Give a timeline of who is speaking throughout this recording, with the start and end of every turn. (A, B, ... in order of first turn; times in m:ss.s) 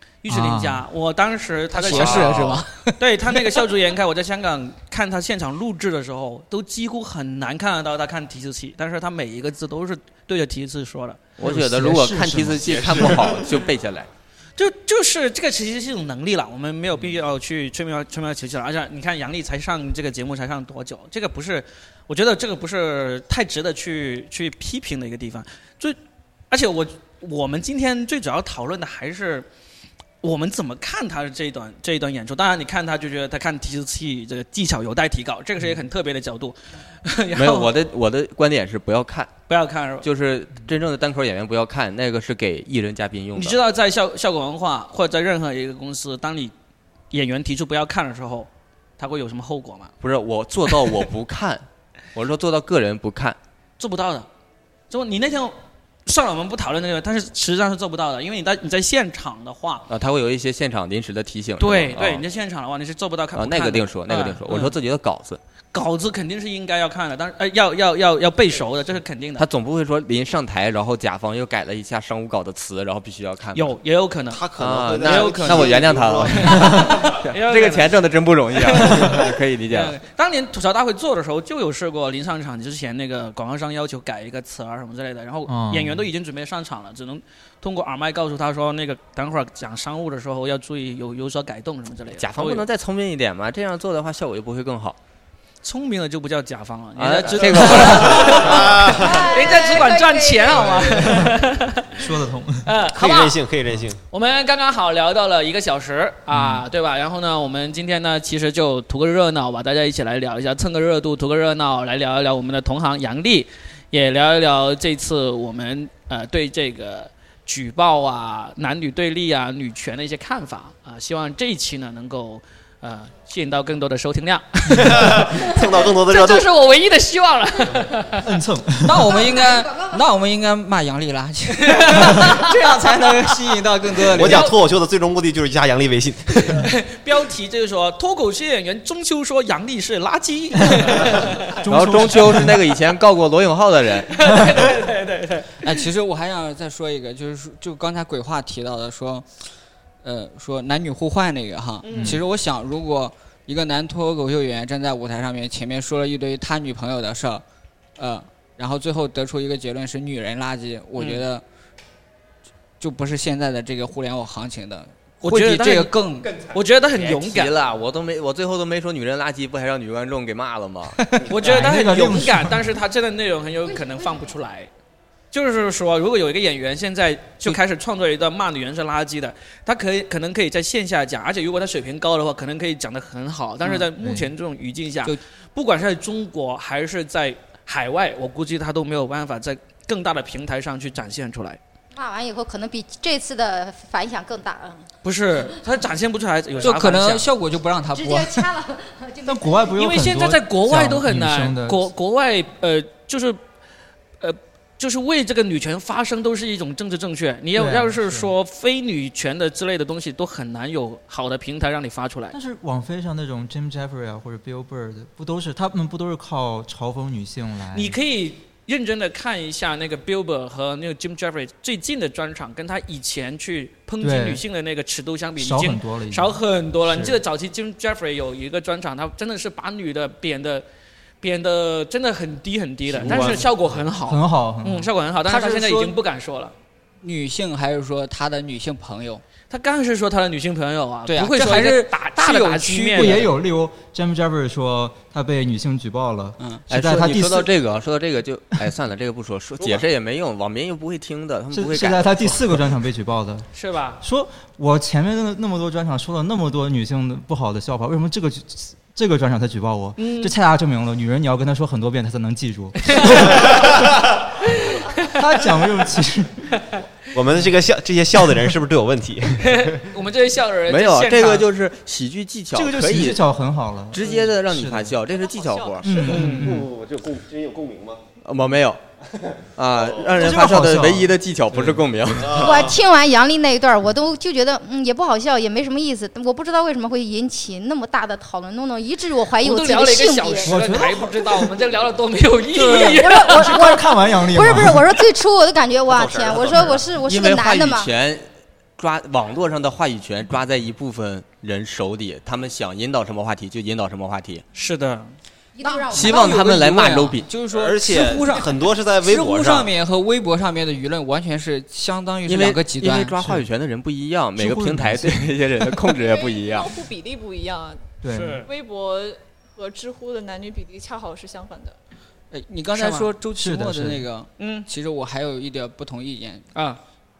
0:00.2-0:11.4 A
0:00.3-0:00.8 B
0:01.7-0:03.6 C
0:01.9-0:02.4 D
0:11.4-0:14.1 D
0:11.4-0:13.3 B
0:14.6-0:26.0 A
0:26.5-0:29.4 A
0:30.2-0:37.7 A
0:37.4-0:39.3 D
0:39.5-0:40.1 A
0:40.0-0:43.6 D
0:43.4-0:46.5 A
0:47.1-0:49.9 A
0:50.0-0:53.4 D
0:53.8-0:54.3 A
0:54.9-0:55.6 A
0:56.1-0:59.9 A
0:59.9-1:02.2 D
1:01.6-1:04.7 A
1:03.3-1:05.4 D
1:05.7-1:09.4 A
1:09.4-1:13.8 D
1:13.6-1:14.4 A
1:14.3-1:16.9 E
1:14.6-1:20.0 D
1:15.0-1:18.0 A
1:18.5-1:32.6 A
1:25.5-1:26.0 B
1:32.1-1:35.0 D
1:35.6-1:41.9 A
1:37.0-1:38.7 D
1:38.4-1:39.3 E
1:38.8-1:41.2 F
1:41.0-1:41.4 B
1:42.0-1:42.7 B
1:42.6-1:43.4 A
1:42.9-1:44.0 E
1:44.1-2:08.3 A
1:46.3-1:46.7 B
2:04.8-2:06.5 E
2:08.2-2:09.1 B
2:08.8-2:14.5 C
2:09.1-2:10.0 F
2:11.6-2:12.5 A
2:14.1-2:16.6 E
2:14.2-2:14.6 A
2:16.4-2:21.5 A
2:20.6-2:22.6 B
2:21.7-2:24.2 D
2:24.1-2:25.7 A
2:25.6-2:29.4 C
2:30.0-2:37.4 C
2:31.8-2:32.2 A
2:32.0-2:32.2 B
2:38.0-2:41.4 C
2:41.0-2:41.2 A
2:42.8-2:46.3 C
2:45.2-2:45.9 A
2:46.5-2:47.5 A
2:46.9-2:51.1 D
2:51.3-2:54.7 A
2:51.4-2:52.8 B
2:53.7-2:54.3 F
2:55.3-3:11.6 A
3:04.0-3:04.3 B
3:12.0-3:14.8 F
3:15.0-3:17.3 A
3:16.6-3:18.4 C
3:18.0-3:19.7 F
3:19.2-3:21.9 B
3:19.8-3:23.4 A
3:24.2-3:32.4 A
3:27.6-3:28.3 B
3:32.3-3:38.0 B
3:37.7-3:50.6 A
3:44.0-3:44.4 B
3:45.4-3:47.2 B
3:51.2-3:56.5 A
3:52.9-3:53.5 E
3:53.0-3:53.4 B
3:54.0-3:54.9 B
3:55.3-3:55.9 C
3:57.0-3:59.2 C
3:59.5-4:03.2 A
4:01.1-4:03.3 C
4:03.0-4:07.5 B
4:06.7-4:12.4 D
4:11.5-4:13.5 B
4:13.5-4:14.0 A
4:14.0-4:23.8 B
4:20.0-4:20.3 A
4:22.9-4:23.6 A
4:24.5-4:26.6 B
4:24.6-4:25.1 A
4:27.1-4:29.8 E
4:29.4-4:31.5 A
4:30.7-4:33.2 D
4:32.5-4:35.0 B
4:33.9-4:36.1 D
4:35.0-4:36.1 G
4:35.8-4:36.7 B
4:36.0-4:38.0 E
4:36.1-4:36.5 A
4:38.2-4:38.8 D
4:39.1-4:40.2 E
4:39.6-4:42.7 D
4:40.2-4:42.3 B
4:42.2-4:42.7 E
4:42.3-4:50.6 F
4:49.4-4:53.7 A
4:50.4-4:51.5 B
4:52.5-4:55.0 B
4:52.6-4:57.9 F
4:55.9-4:57.0 E
4:57.0-4:58.2 D
4:58.8-5:04.4 D
5:04.6-5:05.1 A
5:05.6-5:06.4 F
5:05.6-5:13.3 C
5:05.9-5:07.3 D
5:07.5-5:09.7 E
5:12.3-5:16.7 D
5:14.4-5:15.4 B
5:15.9-5:21.8 G
5:18.0-5:18.4 B
5:18.1-5:18.5 A
5:22.3-5:26.4 C
5:22.8-5:23.1 A
5:23.4-5:24.1 B
5:24.4-5:24.7 A
5:26.6-5:26.8 A